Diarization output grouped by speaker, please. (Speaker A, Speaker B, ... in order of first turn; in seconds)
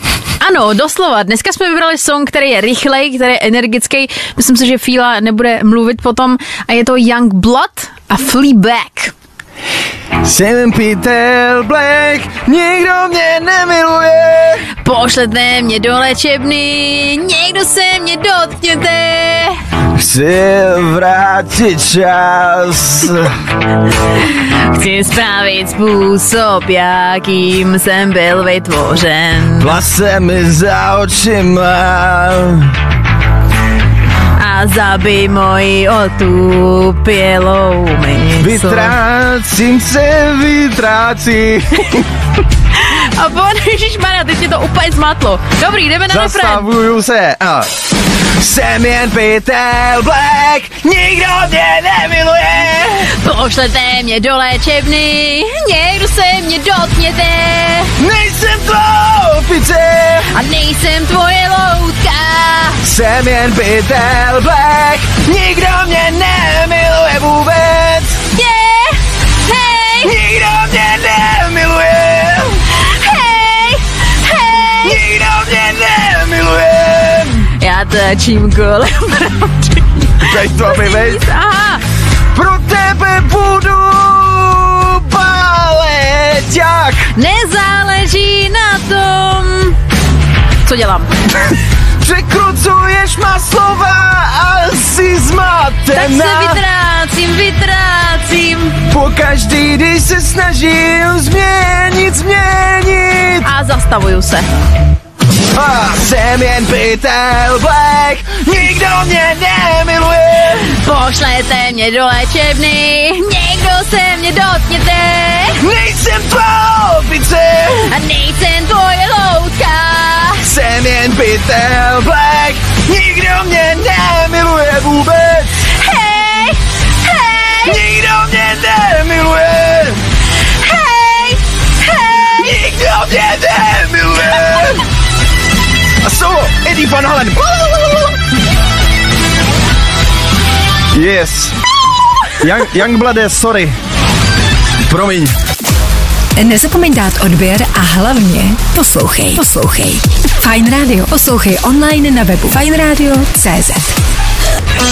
Speaker A: 0.4-9.1, 14.8-19.6, 24.0-29.8, 34.4-39.0, 42.7-46.7, 53.1-57.9, 60.3-62.8, 68.3-70.2, 72.7-75.0, 77.6-81.8, 87.1-89.8, 90.6-91.1, 95.9-98.8, 103.4-104.5, 110.6-115.6, 117.8-120.5, 125.8-127.8, 130.5-132.3
Speaker B: 10.2-14.7, 19.9-23.3, 29.6-32.8, 38.4-42.1, 46.1-47.7, 48.4-53.1, 58.0-60.3, 62.8-68.2, 70.0-72.6, 74.8-77.5, 80.2-81.2, 82.3-87.1, 92.0-96.6, 98.9-103.5, 105.5-110.7, 115.6-117.9, 120.4-125.6, 127.5-130.0, 132.2-134.8, 136.0-138.2, 140.9-141.6, 142.4-143.8, 144.9-145.3
Speaker C: 146.6-153.9